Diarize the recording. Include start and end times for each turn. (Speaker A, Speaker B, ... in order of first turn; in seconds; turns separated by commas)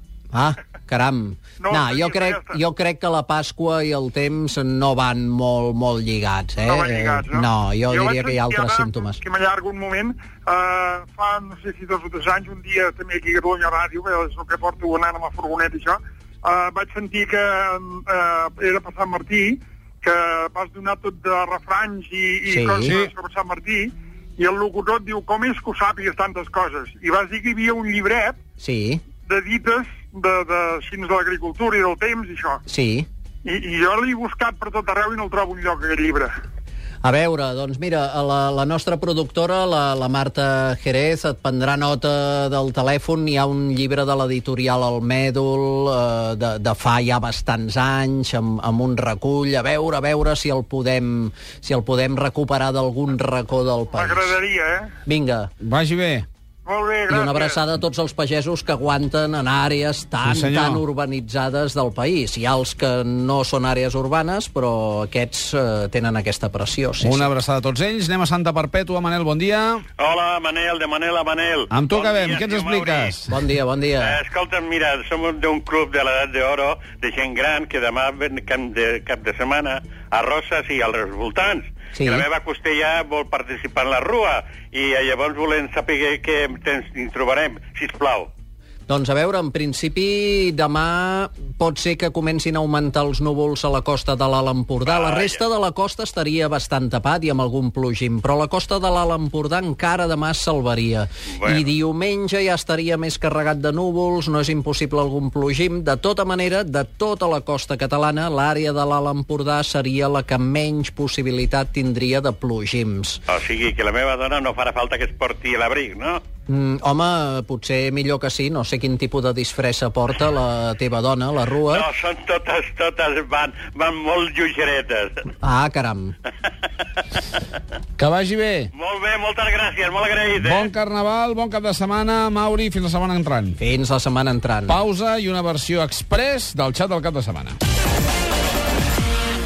Speaker A: 0.3-9.2, Speaker B: 1.6-2.6, Speaker B: 6.7-28.4, Speaker A: 22.5-23.0, Speaker A: 28.6-29.0, Speaker B: 29.3-32.6, Speaker A: 32.7-33.1, Speaker B: 33.5-36.3, Speaker A: 37.0-54.4, Speaker B: 53.9-54.9, Speaker A: 55.1-55.5, Speaker C: 55.6-56.3, Speaker B: 56.6-57.6, Speaker A: 57.1-67.3, Speaker C: 60.3-60.8, Speaker C: 67.0-69.8, Speaker D: 70.0-73.1, Speaker C: 71.7-73.3, Speaker A: 73.3-74.2, Speaker D: 74.0-88.3, Speaker A: 82.0-82.3, Speaker A: 88.9-113.2, Speaker D: 94.9-95.4, Speaker D: 101.4-101.7, Speaker D: 113.3-116.2, Speaker A: 116.5-121.9, Speaker D: 121.7-125.2, Speaker A: 125.4-126.2, Speaker C: 128.0-128.7, Speaker D: 128.7-130.7, Speaker C: 130.4-133.6, Speaker A: 133.6-134.8, Speaker C: 134.7-137.6